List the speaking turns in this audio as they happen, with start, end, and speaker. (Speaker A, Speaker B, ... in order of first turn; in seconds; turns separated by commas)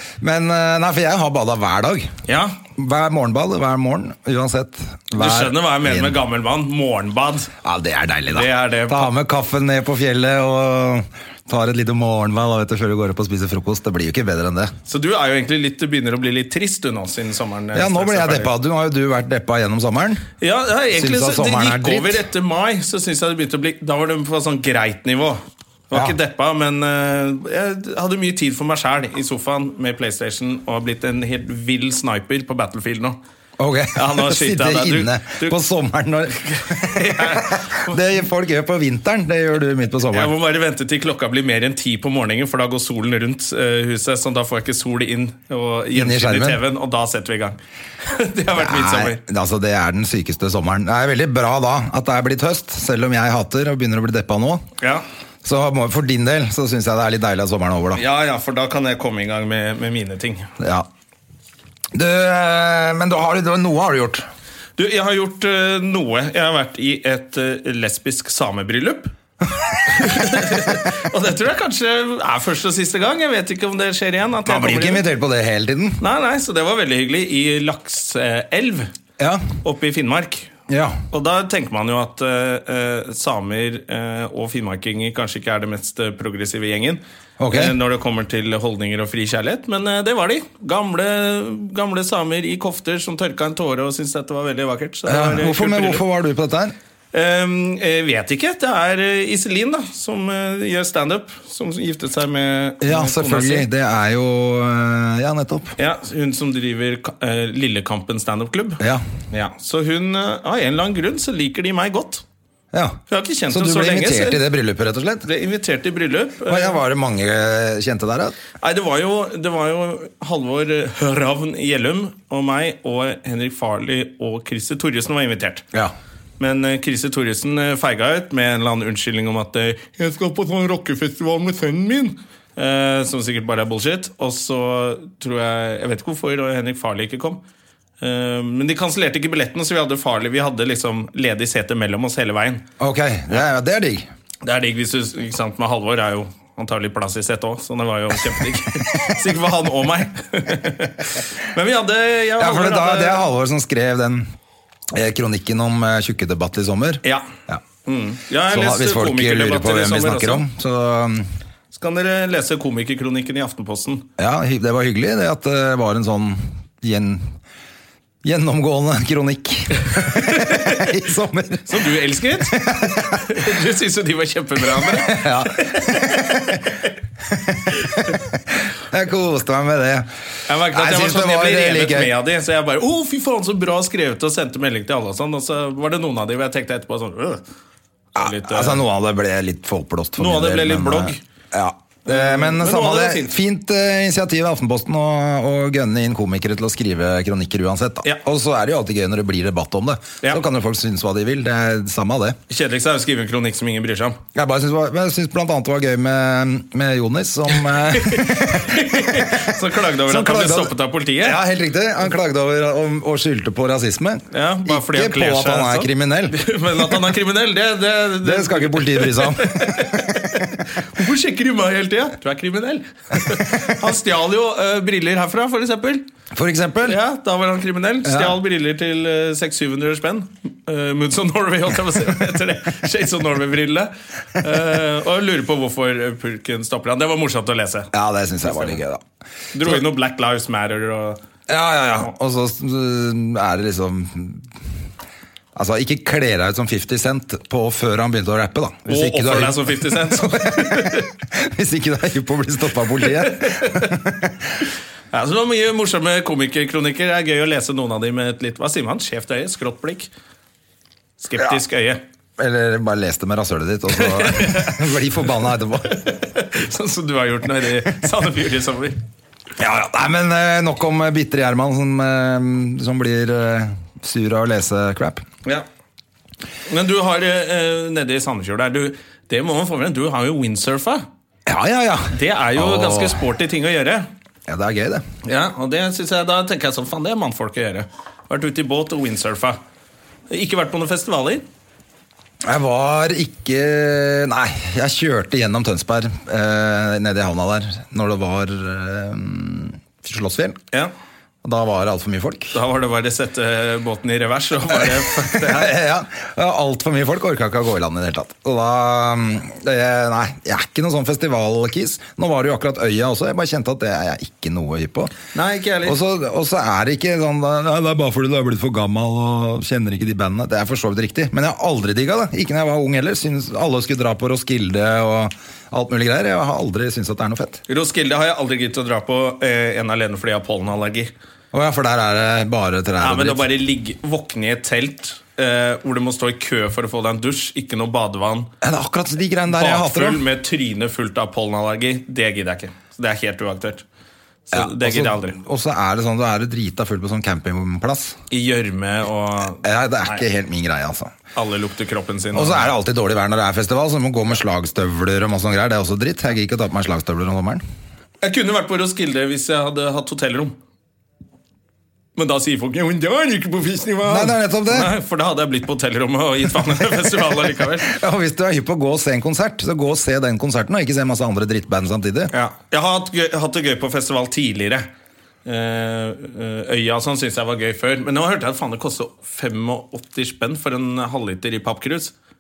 Speaker A: 0.2-2.1, Speaker B: 2.3-2.6, Speaker A: 2.8-6.2, Speaker B: 5.2-7.5, Speaker A: 7.6-14.7, Speaker B: 8.3-9.1, Speaker B: 14.9-18.5, Speaker A: 17.7-20.3, Speaker B: 20.4-33.2, Speaker A: 20.9-22.2, Speaker A: 25.9-26.2, Speaker A: 33.6-40.3, Speaker B: 34.0-35.6, Speaker B: 36.4-38.0, Speaker B: 40.1-49.2, Speaker A: 45.9-46.6, Speaker A: 48.5-54.7, Speaker A: 55.4-58.0, Speaker B: 58.0-60.5, Speaker A: 60.6-60.9, Speaker A: 61.9-64.3, Speaker B: 64.8-69.1, Speaker B: 69.9-75.1, Speaker A: 74.4-76.0, Speaker B: 76.0-78.9, Speaker A: 79.2-79.5, Speaker B: 79.6-80.5, Speaker A: 80.7-81.0, Speaker B: 81.1-96.0, Speaker A: 87.4-87.8, Speaker A: 95.1-96.8, Speaker B: 97.1-103.7, Speaker A: 102.8-105.8, Speaker B: 105.8-112.2, Speaker A: 108.8-109.0, Speaker A: 112.7-115.3, Speaker B: 113.1-114.5, Speaker B: 115.2-116.8, Speaker A: 116.5-118.4, Speaker B: 118.6-125.7, Speaker B: 126.4-137.4, Speaker B: 138.0-142.7, Speaker A: 142.8-144.1, Speaker B: 144.4-153.2, Speaker A: 152.4-154.3, Speaker A: 154.9-157.6, Speaker B: 157.9-160.4, Speaker A: 158.5-161.3, Speaker B: 161.7-164.1, Speaker A: 164.2-167.3, Speaker A: 168.2-173.3, Speaker B: 170.3-170.8, Speaker B: 171.7-176.8, Speaker A: 174.8-176.6, Speaker A: 177.3-180.1, Speaker B: 180.5-187.4, Speaker A: 180.7-182.1, Speaker A: 188.2-202.4, Speaker B: 188.2-188.8, Speaker B: 190.2-191.2, Speaker B: 192.1-193.4, Speaker B: 202.5-204.2, Speaker A: 204.3-216.9, Speaker B: 207.9-211.4, Speaker B: 214.3-226.1, Speaker A: 218.2-220.5, Speaker A: 223.3-223.7, Speaker A: 226.3-227.0, Speaker B: 226.8-237.9, Speaker A: 228.0-228.4, Speaker A: 237.9-239.0, Speaker B: 238.4-238.8, Speaker B: 239.5-241.2, Speaker A: 241.5-244.5, Speaker A: 245.6-254.6, Speaker B: 248.9-251.1, Speaker B: 253.2-253.9, Speaker B: 255.1-260.1, Speaker B: 261.2-262.0, Speaker A: 262.4-266.0, Speaker B: 264.0-264.9, Speaker B: 265.9-269.0, Speaker A: 269.6-275.2, Speaker B: 276.7-281.1, Speaker A: 281.5-283.3, Speaker B: 282.1-284.1, Speaker A: 284.5-285.1, Speaker B: 285.2-289.6, Speaker B: 290.3-291.4, Speaker A: 292.4-300.6, Speaker A: 301.4-302.6, Speaker B: 302.5-305.8, Speaker A: 305.3-315.1, Speaker B: 315.3-316.0, Speaker A: 315.8-327.6, Speaker B: 327.7-331.1, Speaker A: 331.5-333.4, Speaker B: 333.0-338.5, Speaker A: 338.6-340.2, Speaker B: 339.5-343.8, Speaker B: 344.5-345.4, Speaker A: 344.5-348.2, Speaker B: 348.3-350.2, Speaker A: 349.5-351.1, Speaker B: 351.4-352.7, Speaker A: 352.3-357.6, Speaker B: 358.2-360.6, Speaker B: 362.2-367.9, Speaker A: 364.1-364.9, Speaker A: 367.8-372.3, Speaker B: 372.3-374.9, Speaker B: 375.4-382.1